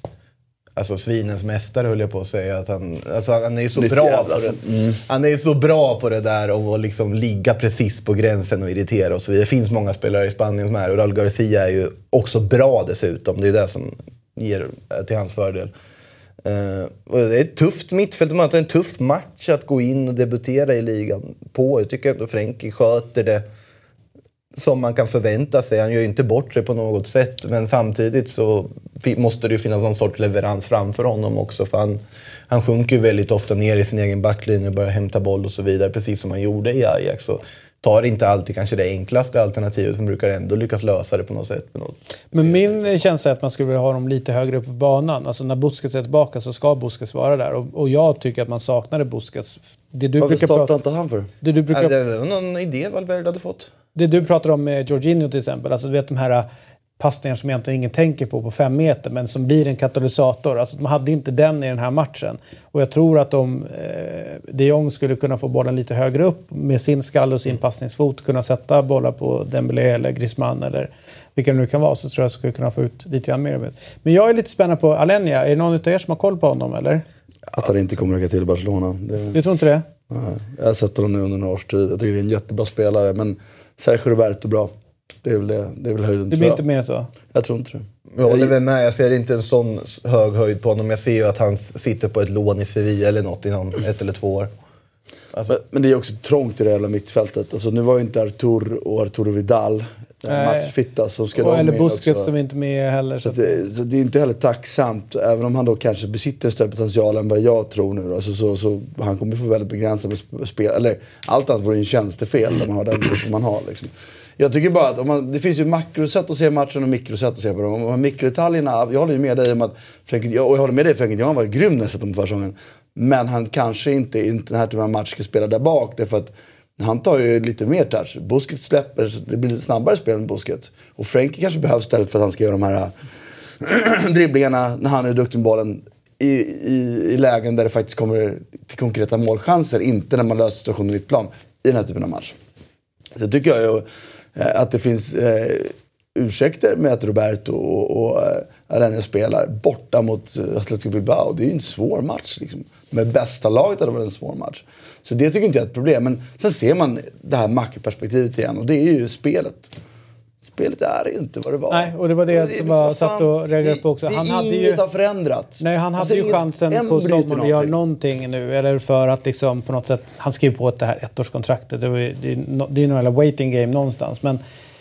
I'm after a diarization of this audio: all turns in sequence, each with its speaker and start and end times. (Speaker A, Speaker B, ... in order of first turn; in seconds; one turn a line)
Speaker A: 0.8-15.7
Speaker B: 3.8-5.0
Speaker A: 16.4-23.4
Speaker A: 24.6-42.8
Speaker C: 42.3-50.7
Speaker B: 50.2-51.3
Speaker C: 51.4-52.0
Speaker A: 51.7-53.7
Speaker C: 54.0-56.5
Speaker C: 57.0-77.0
Speaker B: 77.5-79.4
Speaker C: 79.3-79.8
Speaker B: 80.1-84.7
Speaker B: 85.2-86.6
Speaker C: 86.3-87.1
Speaker B: 87.3-88.5
Speaker A: 88.1-94.5
Speaker B: 95.5-102.3
Speaker C: 100.3-100.7
Speaker C: 101.4-103.6
Speaker B: 103.2-132.9
Speaker B: 133.6-142.3
Speaker B: 143.2-143.8
Speaker B: 144.4-159.7
Speaker B: 160.5-167.7
Speaker C: 161.7-164.8
Speaker C: 165.6-174.4